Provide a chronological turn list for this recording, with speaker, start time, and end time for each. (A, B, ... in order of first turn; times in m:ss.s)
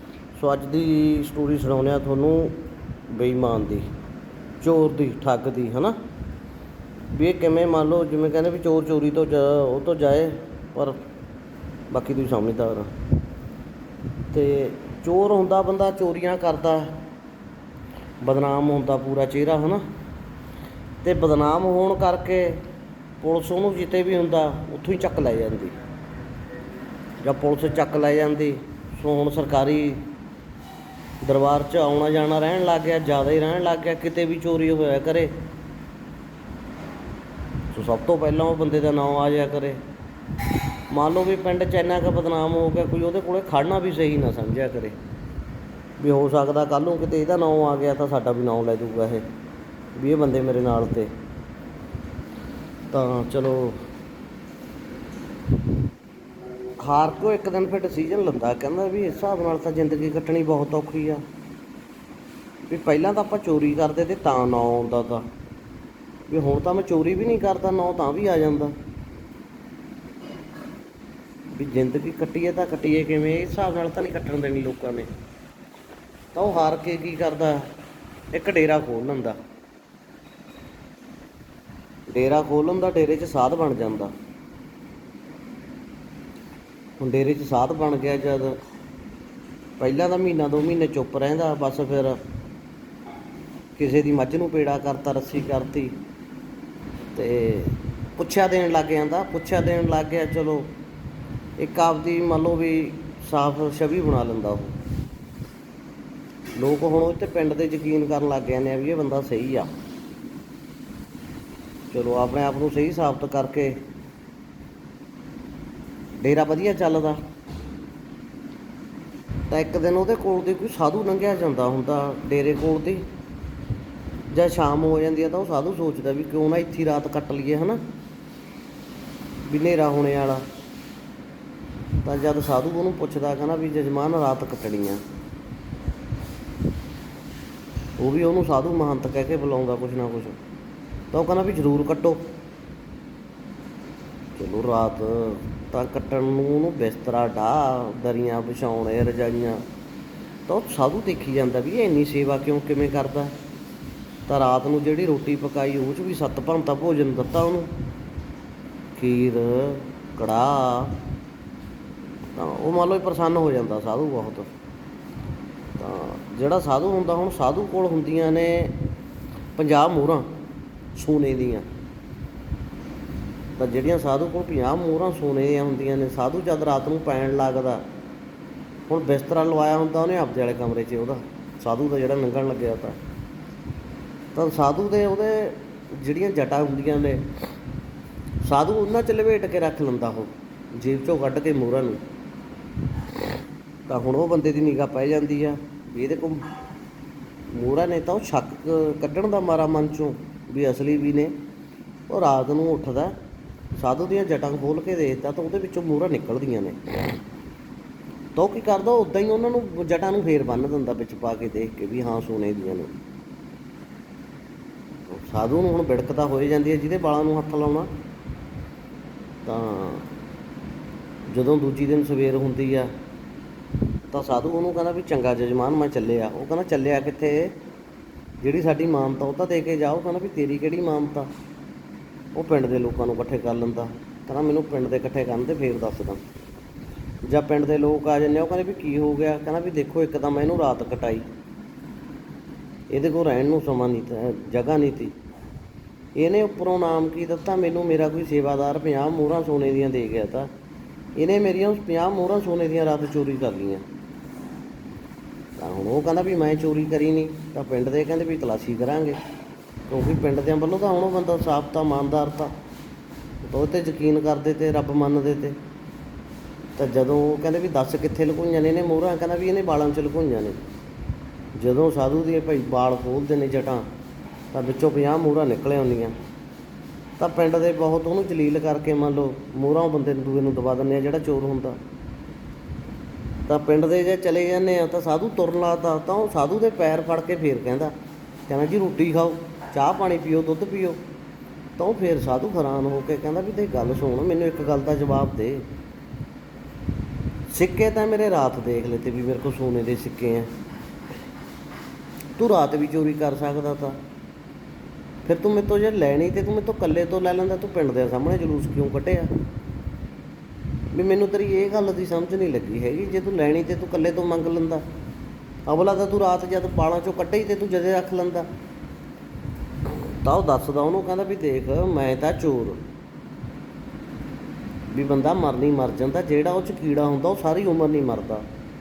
0:00.4-0:02.6 A
0:03.1-0:03.9 A
0:04.6-0:06.0 A
0:07.1-0:11.0 A
0:11.9-0:12.9 A
0:14.3-0:17.0 A
0:18.2-0:19.8 A
0:21.0-0:22.6 A
0:23.2-0:25.7 A
0:27.2-0:30.0 A
0:31.2-0:35.3 A
0:37.7-0:39.8 A
0:40.9-0:45.0 A
0:46.0-0:49.2 A
0:50.0-0:51.1 A
0:52.9-0:53.8 A
0:56.8-1:01.2 A
1:02.7-1:05.2 A
1:06.3-1:08.8 A
1:11.5-1:15.1 A
1:16.3-1:17.7 A
1:18.3-1:19.4 A
1:22.1-1:24.1 A
1:27.0-1:28.6 A
1:29.8-1:32.2 A
1:33.8-1:35.9 A
1:37.1-1:40.7 A
1:41.6-1:44.7 A
1:46.6-1:49.7 A
1:51.9-1:53.8 A
1:56.2-1:57.2 A
1:59.5-2:03.1 A
2:04.3-2:07.8 A
2:09.4-2:10.4 A
2:12.0-2:15.0 A
2:18.0-2:20.4 A
2:21.1-2:22.3 A
2:24.4-2:29.6 A
2:30.5-2:33.4 A
2:34.3-2:37.7 A
2:39.0-2:41.0 A
2:42.3-2:44.5 A
2:45.8-2:48.8 A
2:49.6-2:50.3 A
2:50.9-2:51.6 A
2:53.6-2:57.8 A
2:58.9-3:03.0 A
3:04.3-3:07.2 A
3:08.4-3:12.0 A
3:13.9-3:16.4 A
3:17.5-3:21.3 A
3:22.1-3:23.2 A
3:23.8-3:27.2 A
3:28.4-3:32.9 A
3:35.1-3:37.9 A
3:39.4-3:40.1 A
3:41.3-3:42.9 A
3:44.1-3:47.6 A
3:48.4-3:51.3 A
3:52.3-3:56.2 A
3:57.2-4:01.2 A
4:02.9-4:05.1 A
4:06.2-4:10.5 A
4:11.2-4:13.8 A
4:15.6-4:19.2 A
4:19.9-4:22.5 A
4:23.4-4:25.6 A
4:26.8-4:30.6 A
4:31.5-4:33.9 A
4:34.5-4:36.1 A
4:37.2-4:41.8 A
4:43.5-4:47.9 A
4:48.5-4:51.0 A
4:51.8-4:55.6 A
4:57.5-5:00.5 A
5:02.4-5:04.0 A
5:05.2-5:09.3 A
5:10.9-5:14.8 A
5:15.7-5:18.5 A
5:20.2-5:22.8 A
5:24.9-5:28.4 A